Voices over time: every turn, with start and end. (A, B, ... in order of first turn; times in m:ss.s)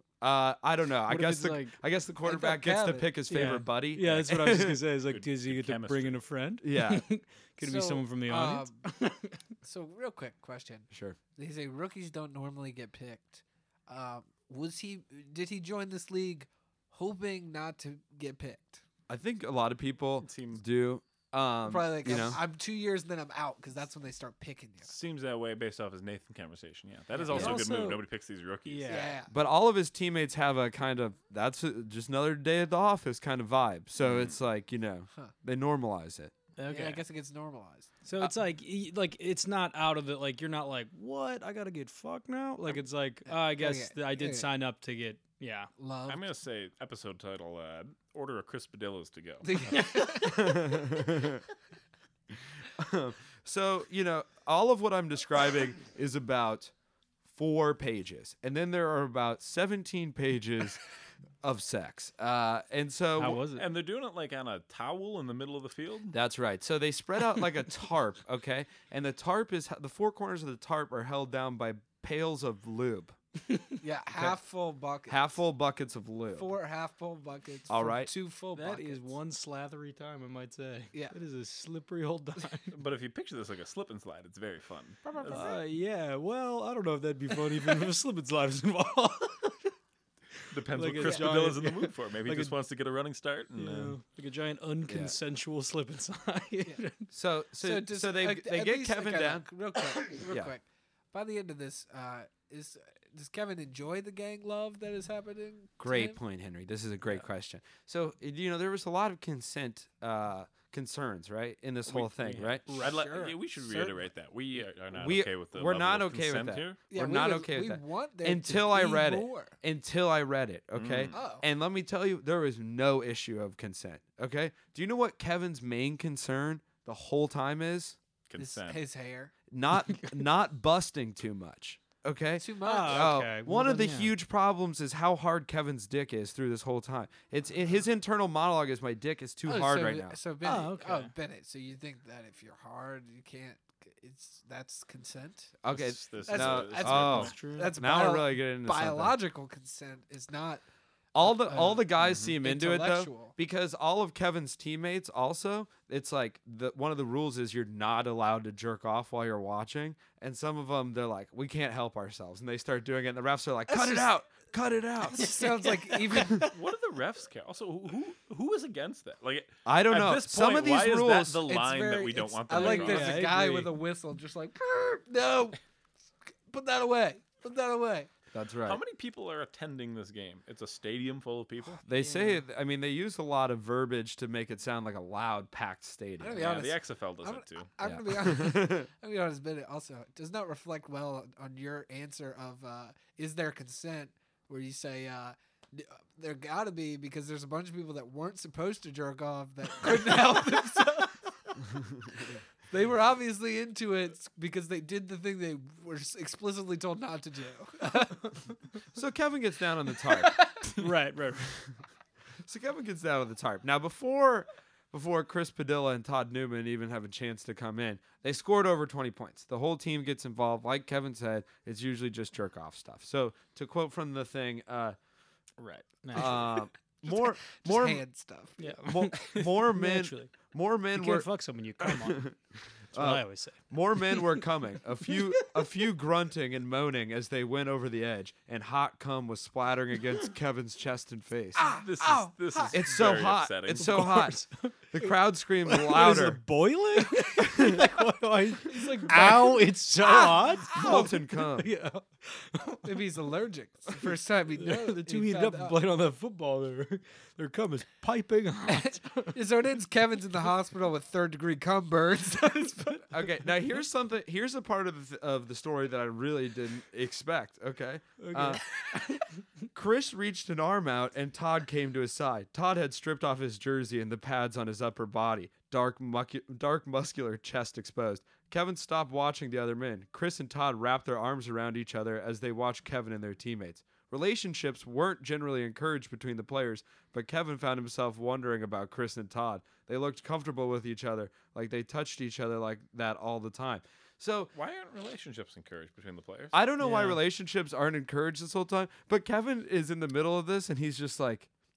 0:00.2-0:04.8 A
0:01.1-0:01.8 B
0:02.2-0:03.1 C
0:03.3-0:09.4 B
0:05.1-0:06.2 D
0:06.6-0:07.0 A
0:07.6-0:08.8 C
0:09.6-0:18.8 C
0:10.9-0:11.2 A
0:19.1-0:22.4 A
0:20.2-0:20.6 D
0:21.6-0:24.9 C
0:24.8-0:29.1 D
0:27.2-0:27.5 C
0:27.2-0:28.0 B
0:27.3-0:27.6 A
0:28.6-0:29.2 B
0:28.9-0:29.3 C
0:29.3-0:36.3 A
0:34.0-0:34.3 D
0:36.6-0:37.0 B
0:36.7-0:37.9 C
0:38.0-0:45.7 B
0:43.3-0:44.5 C
0:45.8-0:46.2 C
0:46.1-0:50.1 D
0:49.4-0:50.8 C
0:49.7-0:50.2 B
0:50.2-0:51.4 A
0:52.8-0:56.7 A
0:57.3-1:00.8 A
1:01.4-1:03.4 A
1:03.2-1:03.6 B
1:03.5-1:06.1 D
1:06.1-1:13.2 A
1:13.8-1:15.2 C
1:15.1-1:16.5 A
1:16.3-1:19.2 C
1:17.7-1:18.1 A
1:18.5-1:22.8 B
1:22.7-1:25.4 D
1:25.0-1:25.6 C
1:25.2-1:29.7 B
1:30.5-1:32.5 B
1:30.5-1:34.0 D
1:31.0-1:31.3 C
1:33.6-1:37.1 B
1:34.9-1:35.1 A
1:37.1-1:39.5 A
1:37.6-1:46.2 C
1:45.8-1:52.6 A
1:51.9-1:56.8 D
1:52.7-1:54.0 C
1:54.9-2:08.0 A
1:56.9-1:59.5 C
2:00.7-2:01.2 D
2:01.1-2:01.4 C
2:08.3-2:08.8 D
2:08.4-2:09.3 C
2:09.5-2:20.2 A
2:12.4-2:13.1 C
2:12.6-2:14.1 B
2:19.4-2:25.6 C
2:20.4-2:21.1 B
2:25.6-2:29.2 A
2:25.7-2:27.3 D
2:26.2-2:30.6 C
2:27.1-2:27.8 B
2:31.1-2:45.3 A
2:31.5-2:33.3 C
2:32.0-2:32.3 D
2:43.7-2:44.1 C
2:45.1-2:46.5 C
2:45.1-2:46.5 B
2:46.2-2:53.2 D
2:49.6-2:51.4 A
2:51.5-2:55.6 C
2:52.5-2:53.8 B
2:56.5-2:58.1 C
2:58.3-2:58.8 A
2:58.6-3:01.8 D
3:01.8-3:06.5 A
3:02.0-3:02.4 C
3:06.2-3:21.2 C
3:06.4-3:07.7 D
3:07.8-3:08.8 A
3:22.7-3:28.4 C
3:28.9-3:30.4 A
3:30.0-3:30.7 C
3:30.8-3:31.5 B
3:32.4-3:45.0 A
3:45.6-3:46.5 B
3:46.1-3:48.0 A
3:47.0-3:48.8 C
3:48.6-3:50.3 B
3:48.8-3:51.3 A
3:50.9-3:52.3 B
3:51.8-3:52.3 A
3:52.9-3:54.4 B
3:52.9-4:01.6 A
4:01.6-4:02.8 C
4:01.6-4:04.1 D
4:02.7-4:06.4 A
4:03.7-4:13.2 B
4:07.4-4:07.8 A
4:08.6-4:11.2 C
4:10.7-4:11.7 A
4:12.8-4:15.8 C
4:14.5-4:19.4 B
4:18.7-4:23.1 C
4:23.1-4:28.6 A
4:28.2-4:29.2 B
4:29.7-4:54.5 A
4:54.5-4:56.5 D
4:56.5-5:01.5 A
4:56.8-4:57.2 B